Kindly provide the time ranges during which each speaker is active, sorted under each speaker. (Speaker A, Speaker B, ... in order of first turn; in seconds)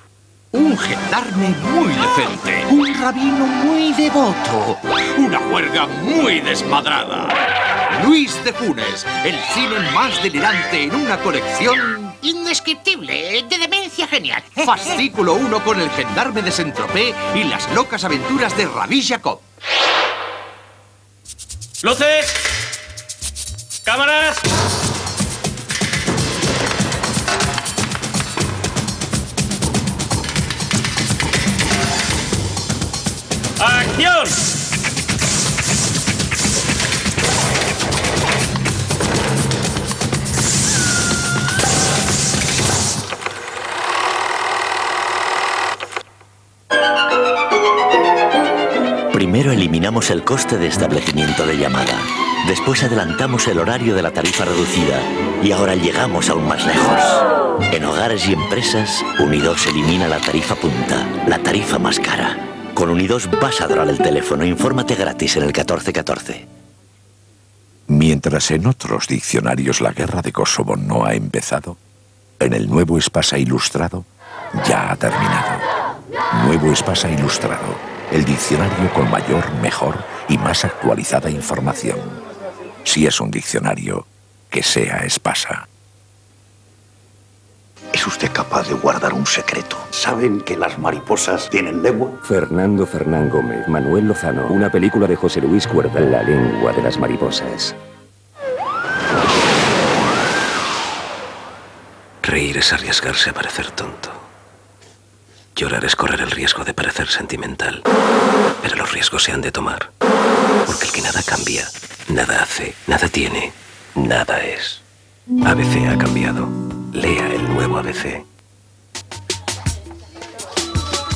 Speaker A: 0.5-7.3, 7.9-12.1, 14.7-19.4
Speaker B: 12.2-15.0
Speaker C: 49.1-66.5
Speaker D: 67.9-71.8, 72.4-74.1, 74.6-75.7, 76.3-82.2, 82.9-85.7
Speaker E: 88.1-92.0
Speaker F: 92.3-97.7
Speaker G: 102.2-104.2, 105.6-107.8, 108.6-109.9, 110.7-114.8, 115.4-118.2